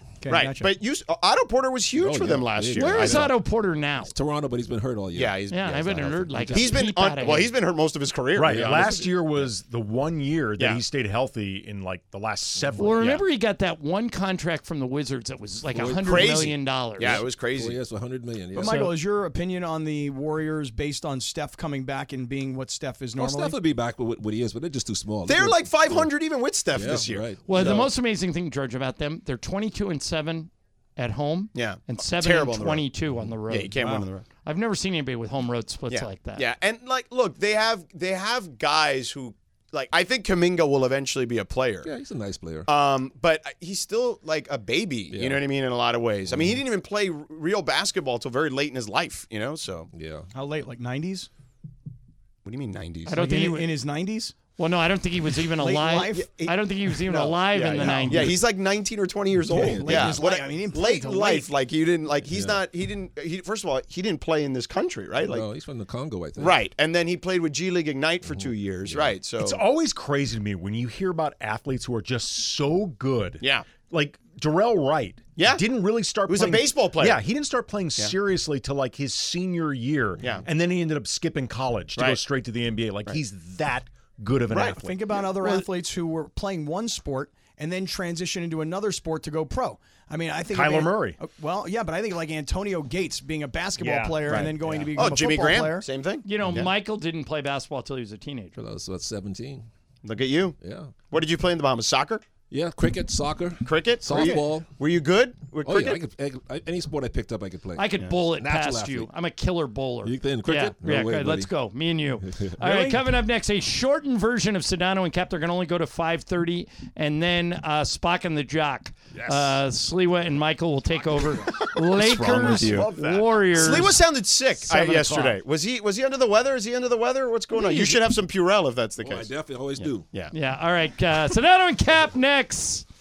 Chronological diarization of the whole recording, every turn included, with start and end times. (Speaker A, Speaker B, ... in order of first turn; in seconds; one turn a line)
Speaker A: 0.2-0.7
Speaker B: 0.3-3.3
Speaker C: 2.0-3.4
Speaker D: 2.8-4.1
Speaker C: 4.1-6.9
Speaker B: 5.1-9.1
Speaker D: 5.5-7.5
Speaker E: 8.3-13.0
Speaker C: 8.4-9.1
Speaker C: 12.6-12.9
Speaker D: 12.8-17.2
Speaker B: 13.0-13.2
Speaker C: 15.7-18.8
Speaker B: 16.0-17.8
Speaker A: 18.5-23.6
Speaker D: 18.6-18.9
Speaker C: 23.2-26.1
Speaker B: 25.2-27.9
Speaker C: 26.7-27.9
Speaker D: 27.4-33.7
Speaker B: 31.5-32.9
Speaker B: 33.5-34.2
Speaker A: 33.8-34.1
Speaker D: 34.4-36.4
Speaker B: 35.9-41.9
Speaker C: 41.8-42.7
Speaker B: 42.7-49.9
Speaker C: 45.1-45.4
Speaker C: 46.3-46.6
Speaker C: 49.9-50.3
Speaker A: 50.3-51.3
Speaker B: 52.4-53.3
Speaker D: 53.1-53.7
Speaker A: 53.1-54.4
Speaker D: 54.5-58.3
Speaker A: 55.6-56.2
Speaker B: 56.1-65.5
Speaker A: 57.6-58.4
Speaker C: 59.5-60.2
Speaker A: 59.5-61.5
Speaker C: 62.3-62.6
Speaker C: 65.2-66.5
Speaker B: 66.3-69.6
Speaker C: 68.3-69.2
Speaker E: 69.4-85.1
Speaker B: 73.4-73.7
Speaker B: 75.3-75.6
Speaker B: 76.2-77.2
Speaker B: 80.2-80.4
Speaker B: 84.5-85.7
Speaker A: 84.7-95.9
Speaker E: 90.5-91.2
Speaker E: 93.8-94.5
Speaker B: 94.2-96.7
Speaker C: 94.5-94.9
Speaker D: 96.2-98.5
Speaker C: 98.5-99.7
Speaker B: 100.0-100.5
Speaker C: 100.6-101.0
Speaker B: 101.1-102.2
Speaker C: 102.5-104.7
Speaker B: 103.6-106.0
Speaker C: 105.6-109.1
Speaker D: 107.8-124.0
Speaker C: 110.0-111.5
Speaker C: 112.3-113.0
Speaker C: 119.1-119.6
Speaker C: 121.3-121.5
Speaker B: 121.6-130.3
Speaker D: 124.6-125.4
Speaker C: 127.5-128.1
Speaker C: 129.0-130.1
Speaker D: 130.3-132.8